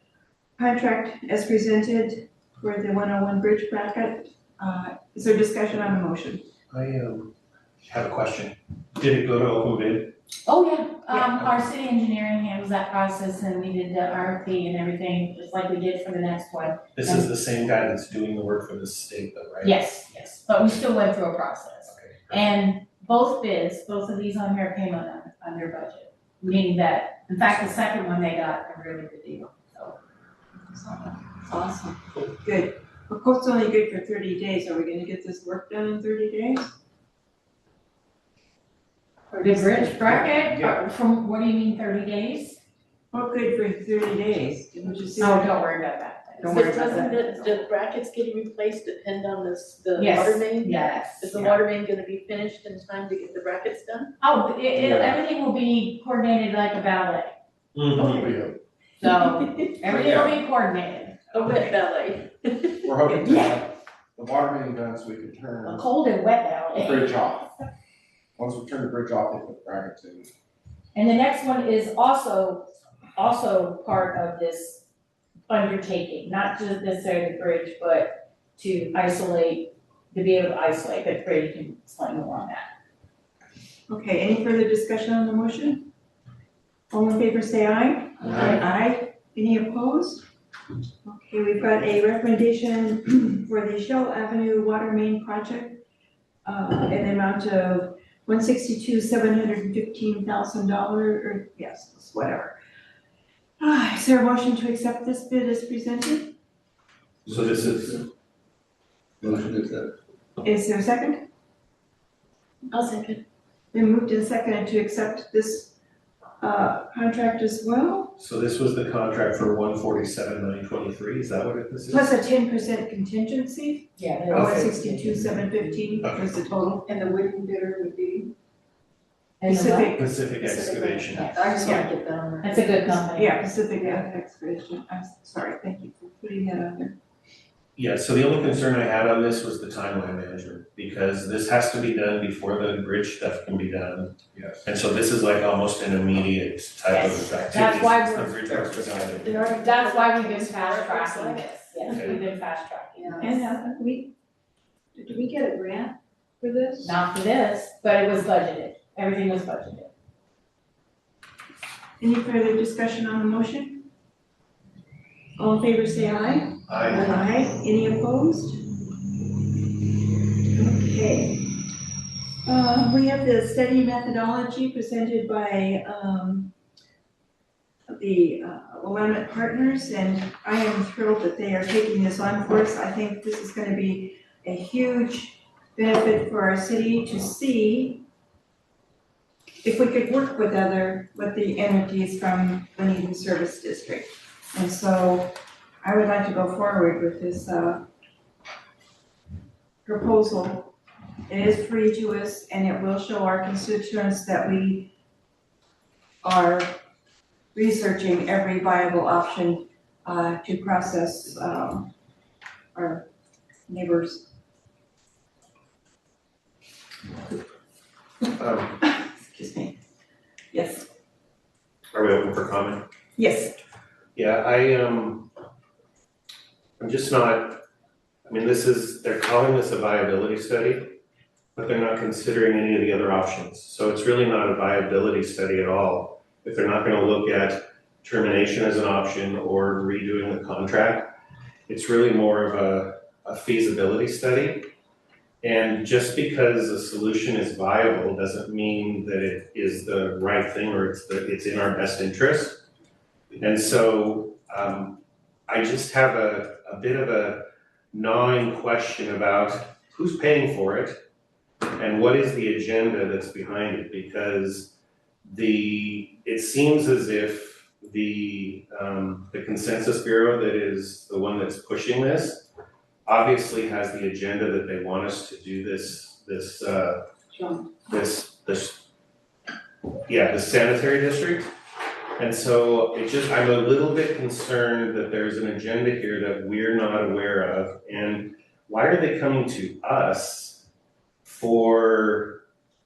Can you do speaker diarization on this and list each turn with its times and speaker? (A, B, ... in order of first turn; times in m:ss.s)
0:00.6-0:06.4 A
0:06.7-0:10.1 B
0:10.4-0:17.3 C
0:17.0-0:19.8 B
0:19.6-0:30.0 C
0:21.9-0:22.4 B
0:30.6-0:36.7 A
0:39.3-0:40.3 D
0:39.4-0:42.6 C
0:40.0-0:40.8 E
0:43.1-0:45.6 A
0:45.2-0:47.2 C
0:46.4-0:47.6 A
0:46.4-0:54.2 D
0:50.0-0:51.5 C
0:54.2-0:57.3 C
0:54.8-0:55.1 B
0:57.7-0:58.2 B
0:58.0-0:58.6 E
0:59.0-1:01.7 C
0:59.0-0:59.7 D
0:59.8-1:00.3 E
1:01.3-1:02.9 D
1:02.8-1:05.8 E
1:03.3-1:03.6 C
1:05.6-1:07.2 C
1:06.8-1:07.5 E
1:08.4-1:10.3 E
1:10.9-1:14.8 C
1:15.5-1:22.7 C
1:23.9-1:25.9 A
1:26.9-1:30.2 A
1:31.0-1:35.8 A
1:36.4-1:42.5 A
1:43.6-1:46.4 A
1:47.2-1:48.0 B
1:49.2-1:49.9 E
1:50.4-1:51.2 A
1:52.7-1:53.2 D
1:53.7-1:55.7 A
1:56.4-1:58.2 A
1:58.2-2:02.1 B
2:01.9-2:06.9 A
2:04.0-2:05.0 C
2:04.3-2:04.6 B
2:06.9-2:08.2 D
2:09.4-2:10.0 C
2:09.4-2:10.1 A
2:10.0-2:11.6 B
2:10.4-2:13.0 D
2:11.2-2:11.9 C
2:11.6-2:11.8 A
2:12.4-2:13.5 C
2:13.1-2:16.9 A
2:17.8-2:29.5 B
2:24.3-2:24.6 E
2:26.9-2:28.4 C
2:29.2-2:32.2 D
2:29.5-2:33.5 C
2:31.9-2:32.2 B
2:33.0-2:33.4 D
2:33.2-2:34.1 A
2:34.9-2:37.0 A
2:36.8-2:39.9 C
2:42.0-2:43.9 A
2:45.4-2:48.6 A
2:46.7-2:47.1 B
2:50.5-2:51.4 A
2:52.4-2:56.5 A
2:57.9-3:08.0 A
3:09.6-3:17.8 A
3:19.8-3:20.7 A
3:21.3-3:24.9 A
3:26.2-3:26.7 A
3:27.5-3:31.9 A
3:32.7-3:33.0 A
3:33.7-3:34.3 A
3:38.4-3:38.8 B
3:38.8-3:39.8 A
3:40.5-3:40.9 A
3:41.9-3:42.8 B
3:43.2-3:43.6 A
3:44.2-3:45.3 B
3:46.8-3:47.6 B
3:48.3-3:50.9 B
3:51.6-4:01.1 B
4:01.7-4:04.7 B
4:05.4-4:12.6 B
4:13.3-4:21.0 B
4:21.8-4:32.5 B
4:33.0-4:37.0 B
4:37.3-4:37.7 A
4:37.9-4:38.8 B
4:40.1-4:41.5 B
4:42.2-4:50.6 B
4:51.2-4:52.4 B